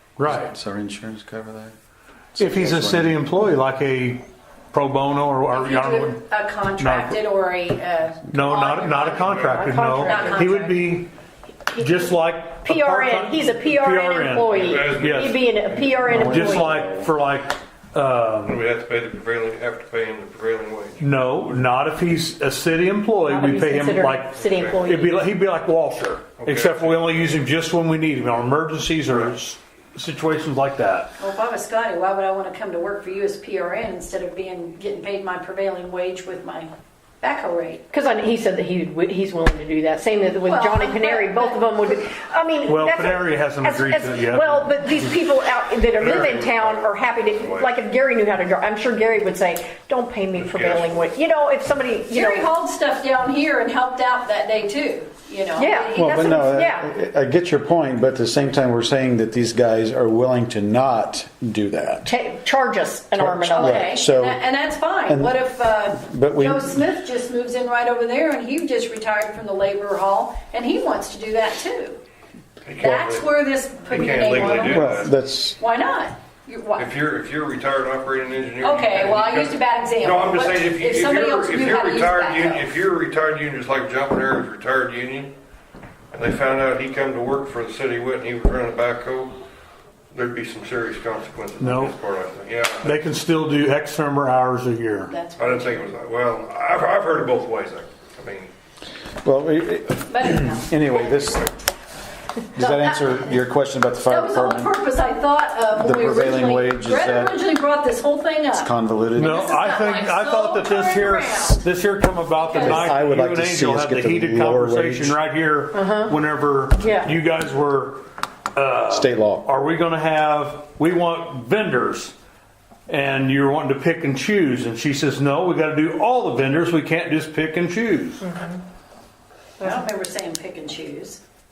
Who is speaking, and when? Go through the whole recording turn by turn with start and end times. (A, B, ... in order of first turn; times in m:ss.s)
0:00.2-0:00.5 A
0:00.2-0:01.7 B
0:02.3-0:03.2 B
0:02.4-0:06.2 A
0:05.5-0:10.7 C
0:06.8-0:07.2 A
0:08.3-0:11.1 A
0:09.2-0:09.6 D
0:09.5-0:10.6 E
0:11.7-0:15.4 A
0:12.6-0:16.7 E
0:14.5-0:16.1 D
0:15.8-0:17.1 B
0:16.1-0:18.6 A
0:18.4-0:21.0 D
0:21.0-0:31.1 A
0:23.3-0:25.2 E
0:24.4-0:24.9 D
0:26.4-0:27.4 D
0:31.2-0:37.9 C
0:37.9-0:52.5 E
0:40.4-0:42.1 C
0:42.6-0:45.2 A
0:45.5-0:47.8 D
0:50.3-0:51.2 D
0:52.1-0:56.5 C
0:55.6-0:56.9 E
0:55.9-1:02.1 B
1:02.0-1:03.9 E
1:03.1-1:04.4 B
1:03.5-1:12.0 C
1:05.0-1:05.4 B
1:05.9-1:06.8 B
1:12.6-1:13.3 D
1:12.8-1:16.9 C
1:13.8-1:15.1 D
1:14.6-1:15.6 B
1:16.8-1:25.3 D
1:18.6-1:22.8 C
1:26.1-1:29.3 D
1:30.1-1:33.1 D
1:31.6-1:31.9 A
1:32.8-1:35.1 A
1:35.1-1:35.9 C
1:35.4-1:38.5 D
1:39.2-1:41.5 B
1:40.1-1:41.1 C
1:42.5-1:44.7 B
1:42.6-1:43.3 C
1:44.1-1:51.6 C
1:45.7-1:47.4 B
1:48.5-1:49.6 B
1:49.1-2:02.1 A
1:52.4-1:52.9 C
1:52.6-1:55.2 B
1:55.7-1:56.1 E
1:56.8-1:57.1 E
1:58.9-1:59.5 B
2:02.9-2:08.2 A
2:08.2-2:08.6 E
2:09.6-2:11.2 C